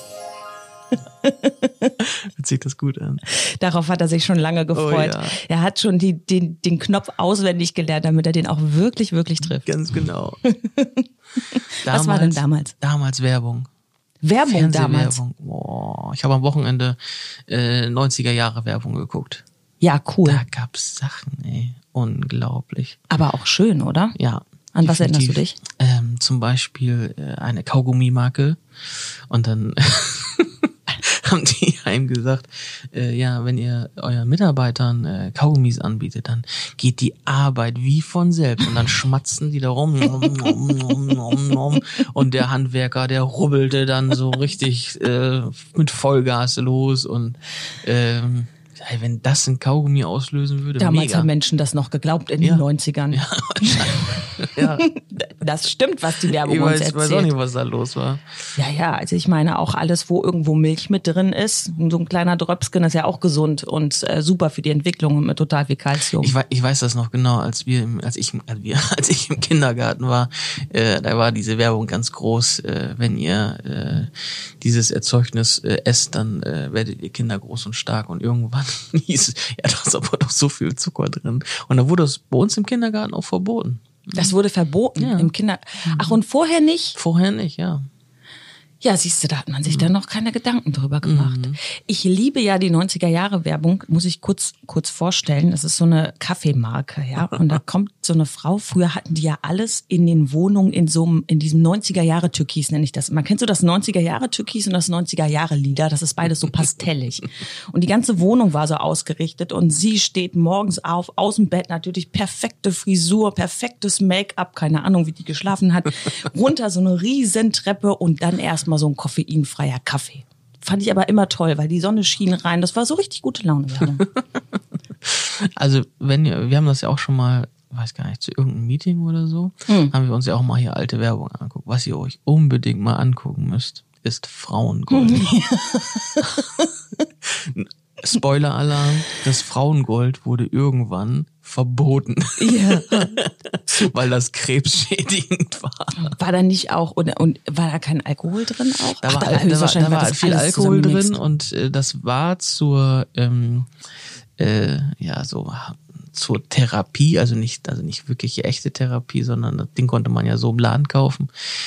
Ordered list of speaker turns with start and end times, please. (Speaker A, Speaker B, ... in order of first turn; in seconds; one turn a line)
Speaker A: 1.2-1.9
Speaker B: 2.0-3.2
Speaker A: 3.3-9.7
Speaker B: 4.8-5.4
Speaker B: 9.4-10.4
Speaker A: 10.4-12.7
Speaker B: 11.8-13.7
Speaker A: 14.2-15.2
Speaker B: 14.4-19.4
Speaker A: 19.8-20.4
Speaker B: 20.2-23.0
Speaker A: 23.1-24.1
Speaker B: 24.1-28.6
Speaker A: 24.7-25.6
Speaker B: 29.3-51.3
Speaker A: 50.8-57.3
Speaker B: 52.4-54.8
Speaker B: 56.3-58.2
Speaker A: 58.6-66.4
Speaker B: 66.2-74.1
Speaker B: 74.6-84.3
Speaker A: 84.1-87.0
Speaker B: 85.0-85.3
Speaker B: 85.8-86.2
Speaker B: 87.0-87.8
Speaker A: 88.8-124.0
Speaker B: 91.0-91.6
Speaker B: 125.0-135.3
Speaker A: 129.7-129.9
Speaker A: 134.9-136.7
Speaker B: 137.3-146.1
Speaker A: 142.4-143.2
Speaker A: 146.0-151.2
Speaker B: 149.0-153.7
Speaker B: 154.4-161.3